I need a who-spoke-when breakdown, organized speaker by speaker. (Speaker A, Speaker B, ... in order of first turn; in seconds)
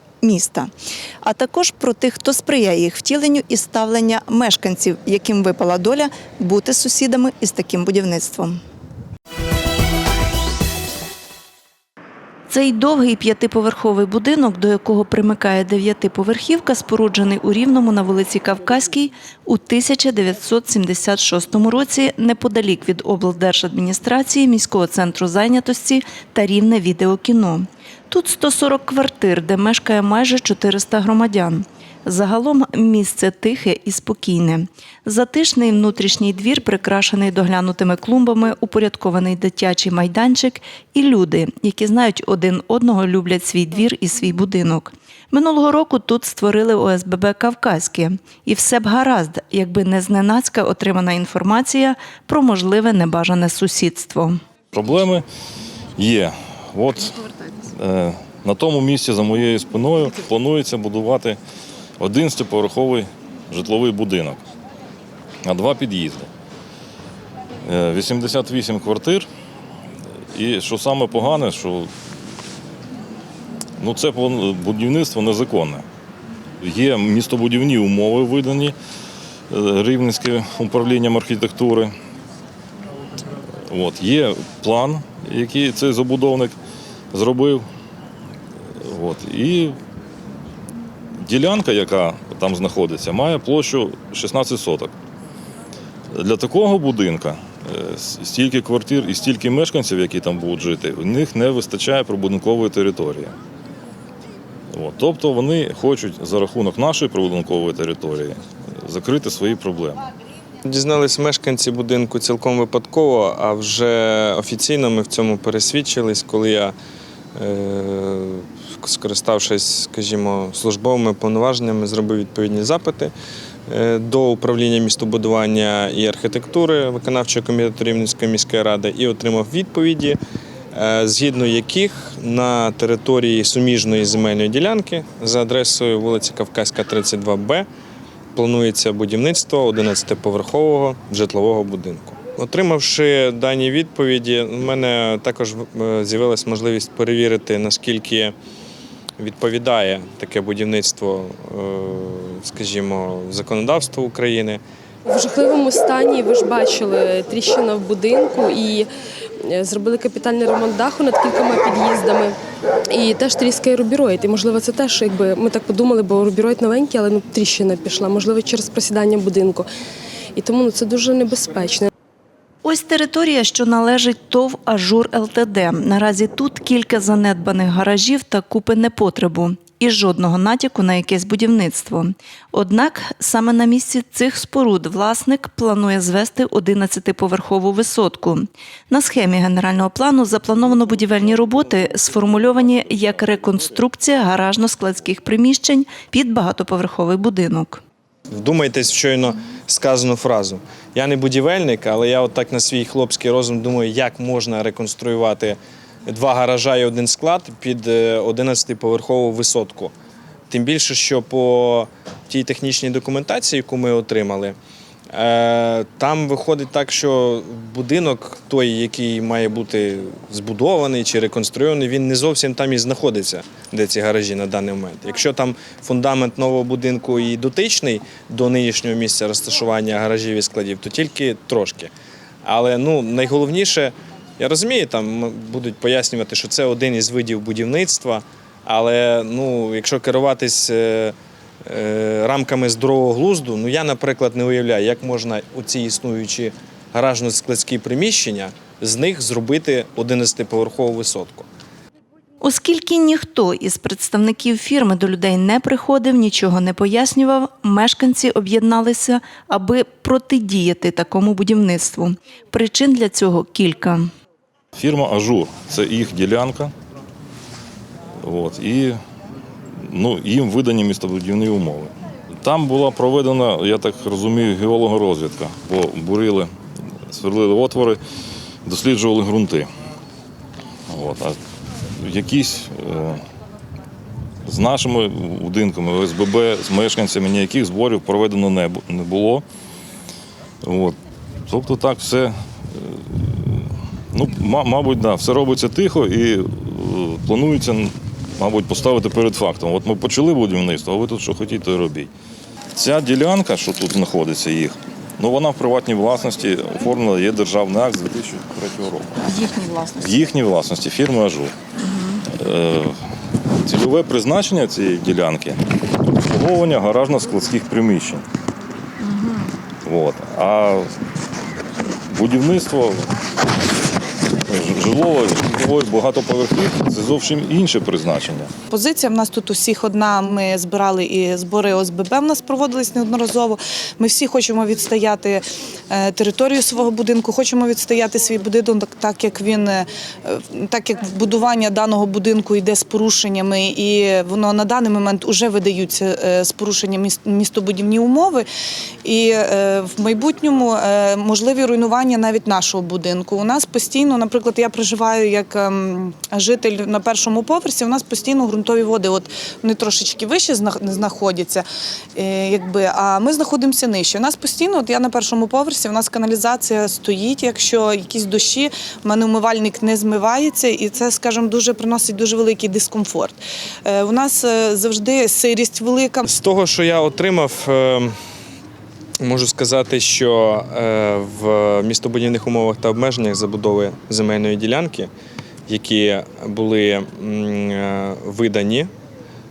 Speaker A: 0.2-0.7, 1.2-8.6, 12.5-54.4, 172.6-197.8, 252.4-264.1, 309.3-310.0, 311.8-312.2, 319.0-319.5
Speaker B: 54.7-55.2, 56.0-61.4, 62.0-64.4, 65.4-66.3, 67.6-69.3, 70.3-71.9, 73.8-75.8, 76.6-78.7, 79.5-81.9, 83.7-86.5, 87.1-87.7, 88.8-89.8, 91.2-94.9, 96.1-103.3, 104.7-110.0, 264.7-266.7, 268.2-269.0, 269.8-276.5, 277.1-278.0, 278.6-279.7, 280.9-281.4, 281.9-283.2, 284.4-289.4, 290.6-302.1, 302.8-309.4, 310.0-311.5, 312.3-313.0, 313.6-318.2, 319.8-320.9, 322.1-323.1, 324.4-328.5
Speaker C: 110.6-116.7, 117.3-123.1, 123.7-130.2, 130.7-137.7, 138.3-148.3, 149.2-154.6, 198.3-209.9, 210.5-214.6, 215.1-231.9, 232.4-251.5, 376.2-378.1, 379.2-385.1, 385.7-388.9
Speaker D: 155.1-158.9, 159.4-162.3, 162.9-169.7, 170.3-171.9
Speaker E: 328.7-348.5, 349.0-376.2